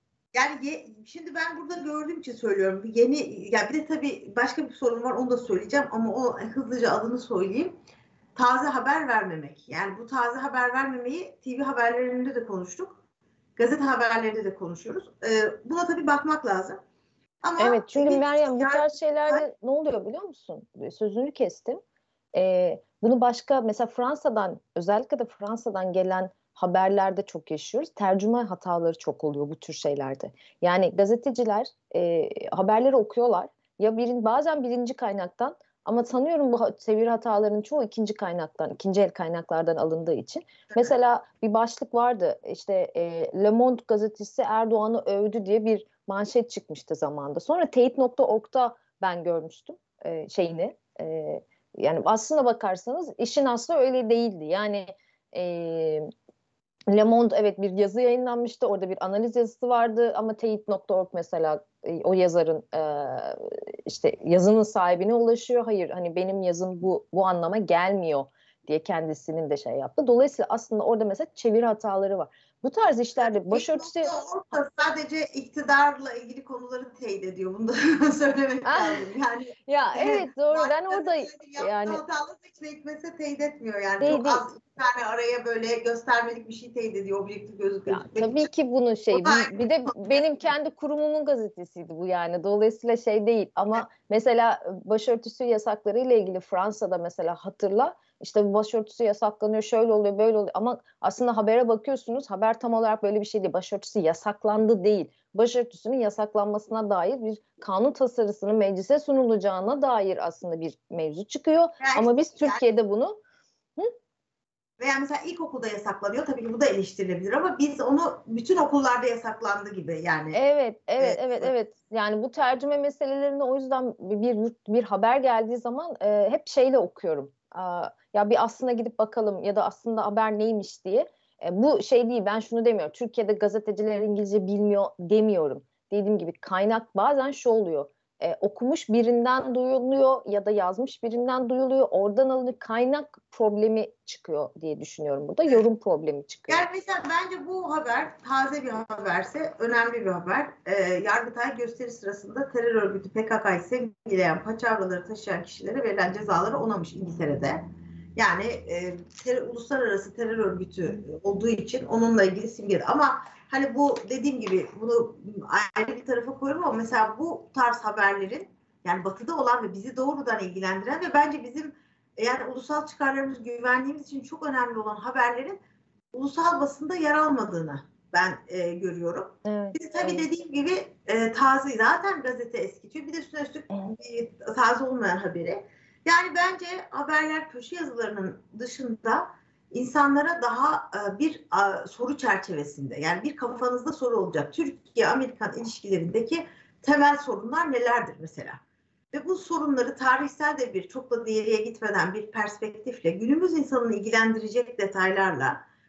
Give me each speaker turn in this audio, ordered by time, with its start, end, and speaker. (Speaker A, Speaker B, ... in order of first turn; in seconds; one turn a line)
Speaker A: 0.3-7.7
Speaker A: 8.3-13.0
Speaker A: 13.6-16.8
Speaker A: 17.4-19.4
Speaker B: 17.6-21.8
Speaker B: 22.3-56.1
Speaker B: 56.9-74.1
Speaker A: 73.2-88.5
Speaker B: 78.7-79.0
Speaker B: 79.7-82.0
Speaker B: 84.0-84.5
Speaker B: 87.9-113.2
Speaker A: 89.1-90.4
Speaker A: 111.8-112.6
Speaker A: 114.8-120.4
Speaker B: 120.3-146.7
Speaker A: 121.0-121.5
Speaker A: 146.5-175.6
Speaker A: 176.1-198.6
Speaker B: 179.4-180.2
Speaker A: 199.1-205.6